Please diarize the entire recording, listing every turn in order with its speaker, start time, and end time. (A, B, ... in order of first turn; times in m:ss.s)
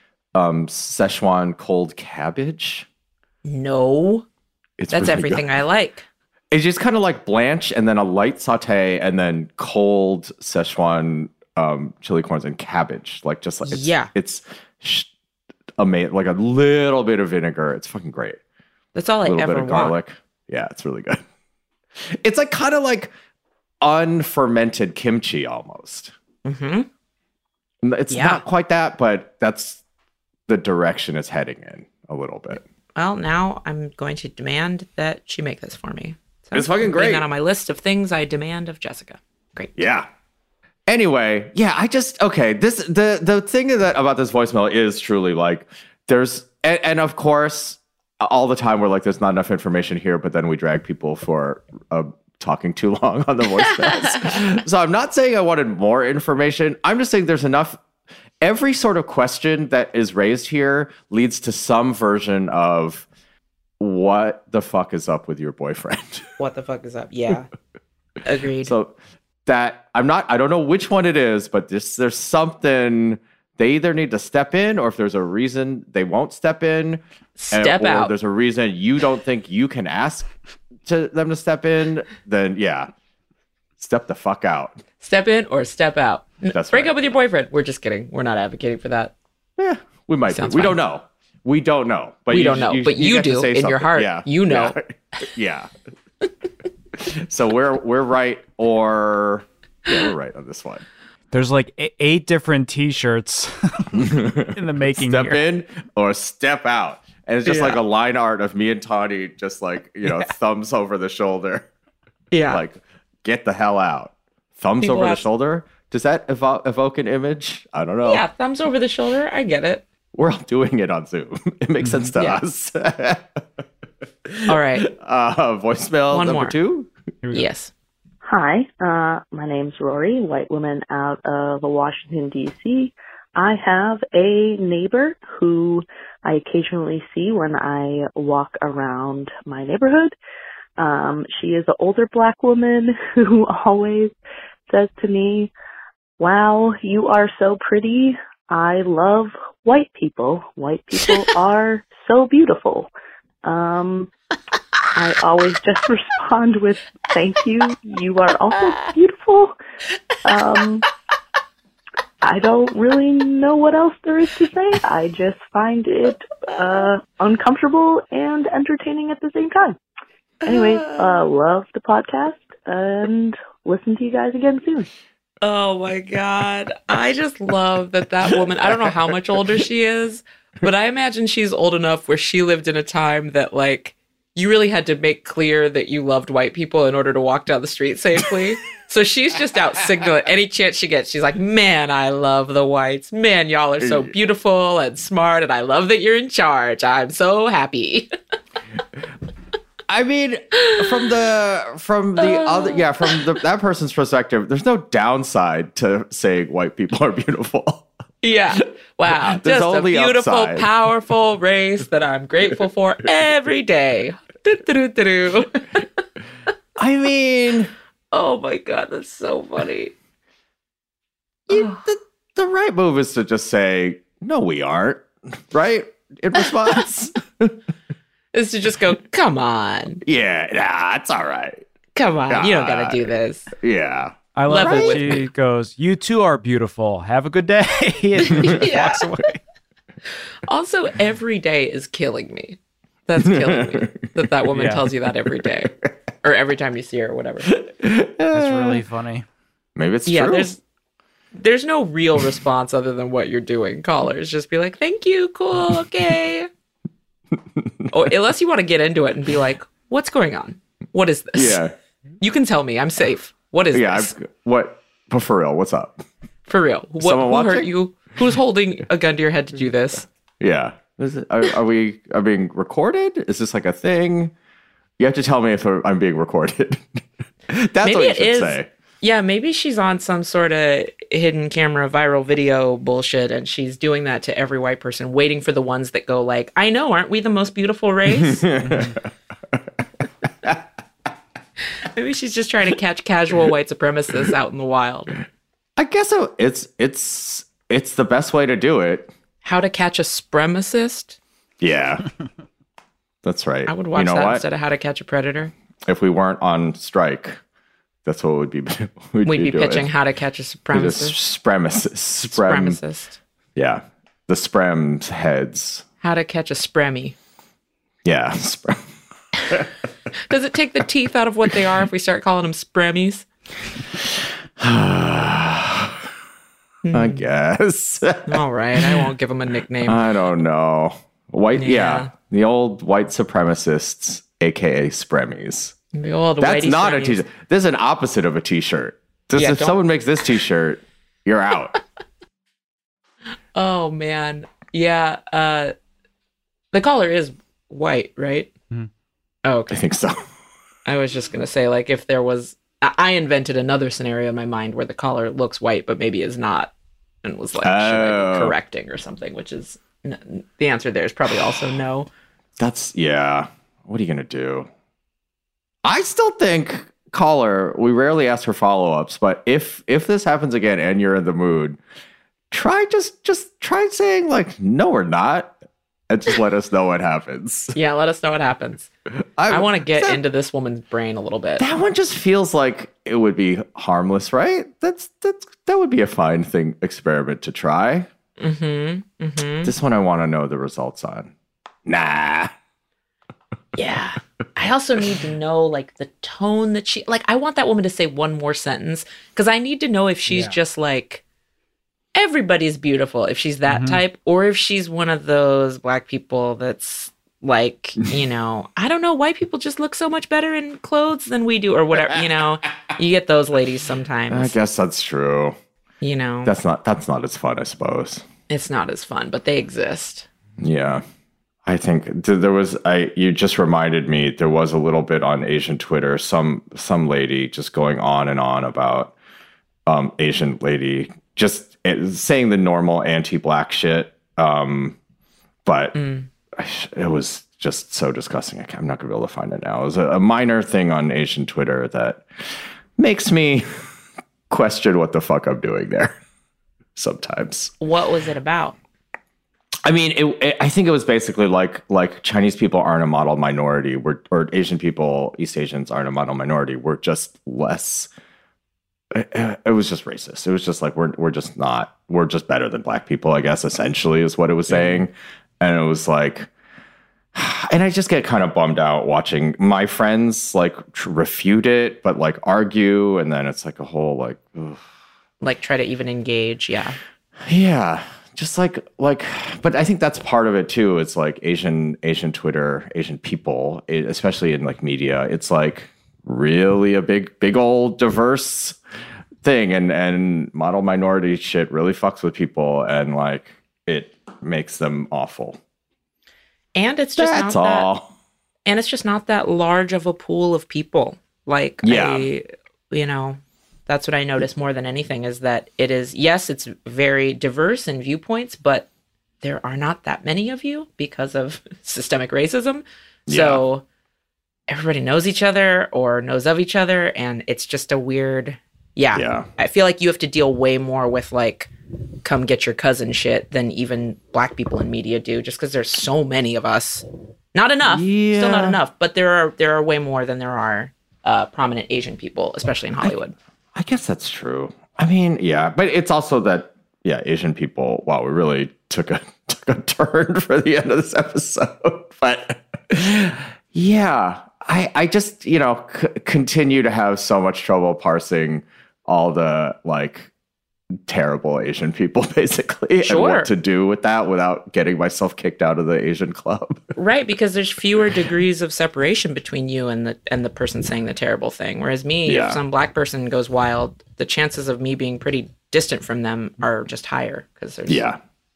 0:00.3-0:02.8 A
0:03.4-0:04.2 B
0:04.8-0:05.4 A
0:04.9-0:06.0 B
0:06.5-0:15.1 A
0:13.6-0:14.1 B
0:15.8-0:18.4 A
0:18.9-0:19.9 B
0:19.2-0:21.2 A
0:22.0-0:23.1 A
0:23.8-0:26.1 A
0:26.4-0:26.9 B
0:27.8-0:29.8 A
0:28.1-0:28.4 B
0:30.5-0:32.6 A
0:33.0-0:39.8 B
0:36.5-0:37.2 A
0:39.8-0:40.1 A
0:40.9-0:57.8 A
0:54.0-0:54.4 B
0:58.4-1:03.0 A
1:03.8-1:06.3 A
1:06.4-1:07.5 B
1:08.2-1:08.7 B
1:08.6-1:17.0 A
1:17.4-1:18.1 B
1:17.5-1:20.3 A
1:20.8-1:22.9 A
1:23.8-1:24.8 A
1:25.0-1:29.1 B
1:26.5-1:27.0 A
1:29.6-1:35.7 A
1:30.3-1:30.8 B
1:32.3-1:34.8 B
1:37.0-1:40.8 A
1:41.3-1:45.4 C
1:43.9-1:51.7 A
1:47.4-1:47.8 B
1:52.3-1:52.6 B
1:52.5-1:58.2 A
1:54.8-1:55.2 B
1:58.0-1:59.8 B
2:00.1-2:03.6 A
2:04.2-2:06.9 A
2:04.5-2:04.9 B
2:06.1-2:06.6 B
2:07.2-2:07.5 C
2:07.3-2:07.7 B
2:08.2-2:20.1 D
2:20.8-2:24.1 D
2:24.7-2:25.5 D
2:26.2-2:32.9 D
2:33.4-2:34.1 D
2:34.9-2:39.5 D
2:38.6-2:38.8 B
2:40.2-2:40.8 D
2:42.2-2:49.8 D
2:46.5-2:46.8 B
2:50.4-2:54.9 D
2:50.5-2:50.8 B
2:55.4-3:18.1 B
3:13.8-3:14.1 A
3:19.9-3:27.9 A
3:22.2-3:23.2 B
3:28.2-3:35.9 B
3:29.1-3:30.7 A
3:36.8-3:37.7 A
3:38.1-3:39.9 B
3:41.5-3:47.6 A
3:48.3-3:50.0 B
3:50.0-3:51.7 A
3:51.9-3:53.5 B
3:52.3-3:55.0 A
3:54.3-3:59.4 C
3:54.5-3:55.2 B
3:58.2-3:59.0 B
4:00.4-4:07.5 B
4:03.2-4:04.0 A
4:04.5-4:04.8 C
4:07.5-4:08.8 A
4:08.3-4:09.2 C
4:09.8-4:10.5 A
4:10.1-4:10.6 B
4:11.3-4:16.5 B
4:17.6-4:17.9 A
4:17.9-4:21.6 B
4:21.3-4:21.7 A
4:22.2-4:24.2 B
4:23.7-4:26.0 A
4:26.4-4:30.1 B
4:27.0-4:27.7 A
4:30.4-4:34.3 A
4:35.0-4:38.7 A
4:37.8-4:48.8 B
4:48.1-4:49.6 A
4:51.8-4:55.2 B
4:55.8-4:59.1 A
4:59.4-5:01.2 B
5:01.6-5:02.1 A
5:03.2-5:04.4 A
5:03.6-5:05.5 B
5:05.9-5:07.4 A
5:08.0-5:09.9 A
5:09.2-5:11.2 B
5:10.7-5:12.8 A
5:12.3-5:13.2 B
5:13.6-5:15.8 A
5:16.0-5:17.2 B
5:18.0-5:18.9 A
5:20.2-5:23.3 B
5:24.0-5:26.0 A
5:26.8-5:27.2 B
5:26.9-5:29.1 A
5:28.3-5:30.0 B
5:29.8-5:35.7 A
5:31.6-5:32.1 B
5:35.9-5:37.2 B
5:36.4-5:41.8 A
5:39.4-5:39.8 B
5:43.5-5:45.7 B
5:46.7-5:48.5 B
5:49.4-5:49.8 B
5:49.7-5:50.2 A
5:50.8-6:02.1 B
5:57.6-5:58.5 A
6:02.6-6:04.7 A
6:05.8-6:11.8 A
6:12.5-6:15.6 A
6:16.1-6:17.7 A
6:17.7-6:18.9 B
6:19.4-6:20.2 A
6:19.5-6:21.7 B
6:21.6-6:28.1 A
6:28.4-6:29.7 B
6:29.6-6:31.3 A
6:31.8-6:32.5 A
6:33.8-6:41.2 B
6:42.1-6:54.5 B
6:43.7-6:44.0 C
6:54.3-6:55.6 A
6:56.0-6:56.5 B
6:56.4-6:58.2 A
6:58.5-7:00.3 B
7:00.6-7:01.0 A
7:01.6-7:09.1 A
7:09.8-7:15.0 A
7:15.6-7:16.0 A
7:15.9-7:16.3 B
7:16.5-7:23.9 A
7:24.5-7:26.1 A
7:27.0-7:27.7 A
7:27.8-7:28.8 B
7:29.8-7:38.1 A
7:39.1-7:46.5 A
7:44.7-7:45.0 B
7:47.3-7:54.8 A
7:55.4-7:57.0 B
7:57.4-8:08.8 A
8:09.4-8:15.6 A
8:16.7-8:17.9 B
8:17.2-8:18.1 A
8:18.6-8:28.9 B
8:21.8-8:22.3 A
8:29.4-8:33.8 B
8:33.3-8:33.6 A
8:34.7-8:41.7 B
8:39.1-8:39.5 A
8:42.2-8:53.3 B
8:47.8-8:48.8 A
8:53.7-9:10.3 A
9:11.0-9:16.9 A
9:13.0-9:13.5 B
9:16.9-9:28.1 B
9:22.2-9:22.6 A
9:27.9-9:28.2 A